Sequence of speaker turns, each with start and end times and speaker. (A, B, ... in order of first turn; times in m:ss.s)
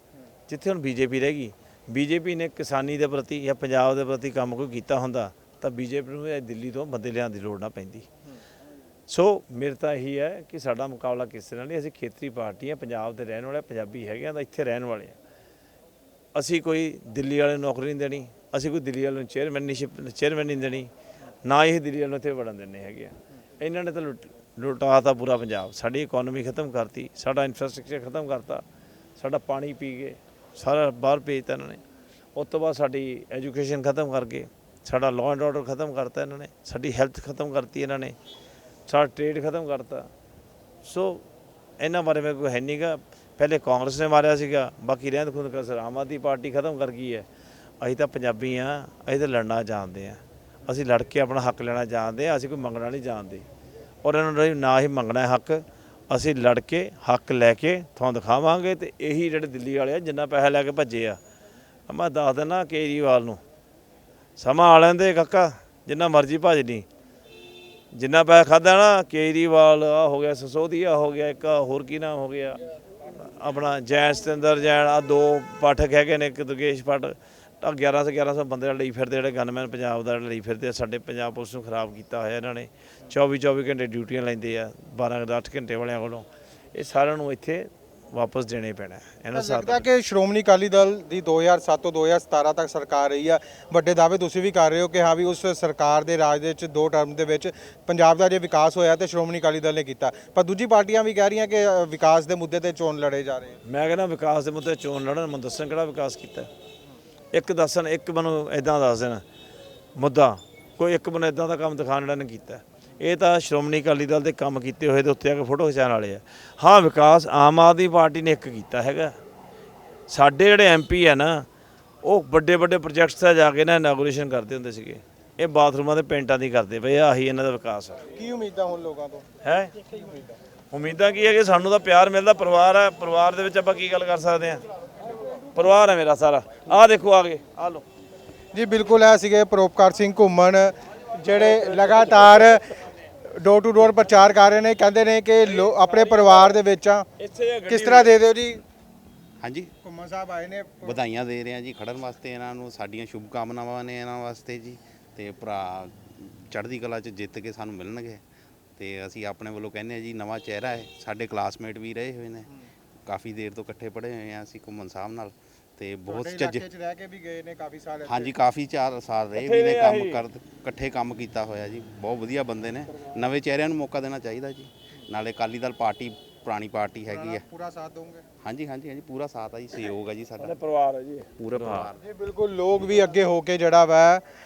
0:00.5-0:08.1 A
0:09.1-0:15.2 A
0:16.4-0:20.9 A
0:21.5-0:28.6 A
0:29.2-0:31.8 A
0:32.4-0:38.2 A
0:38.9-0:40.1 A
0:40.8-0:41.2 A
0:41.8-0:47.3 A
0:47.8-0:53.5 A
0:54.0-1:01.2 A
1:01.9-1:03.4 A
1:04.4-1:06.9 A
1:07.9-1:12.6 A
1:13.2-1:29.9 A
1:29.3-1:43.6 B
1:43.6-1:46.5 A
1:47.3-1:49.2 A
1:50.0-1:59.2 A
2:00.1-2:01.5 A
2:02.0-2:08.0 A
2:08.2-2:09.2 B
2:09.4-2:09.8 A
2:09.9-2:10.4 B
2:10.7-2:14.6 A
2:15.5-2:17.8 A
2:18.5-2:22.8 B
2:23.3-2:27.1 B
2:25.4-2:26.6 A
2:27.2-2:28.1 A
2:27.7-2:28.6 B
2:29.4-2:29.7 C
2:29.8-2:31.0 B
2:30.8-2:38.2 C
2:38.8-2:42.5 C
2:43.1-2:46.6 C
2:46.1-2:48.4 B
2:48.1-2:57.4 C
2:49.4-2:50.2 A
2:57.1-2:58.2 B
2:58.4-3:00.6 C
3:00.4-3:01.9 A
3:01.4-3:02.0 C
3:02.0-3:04.2 B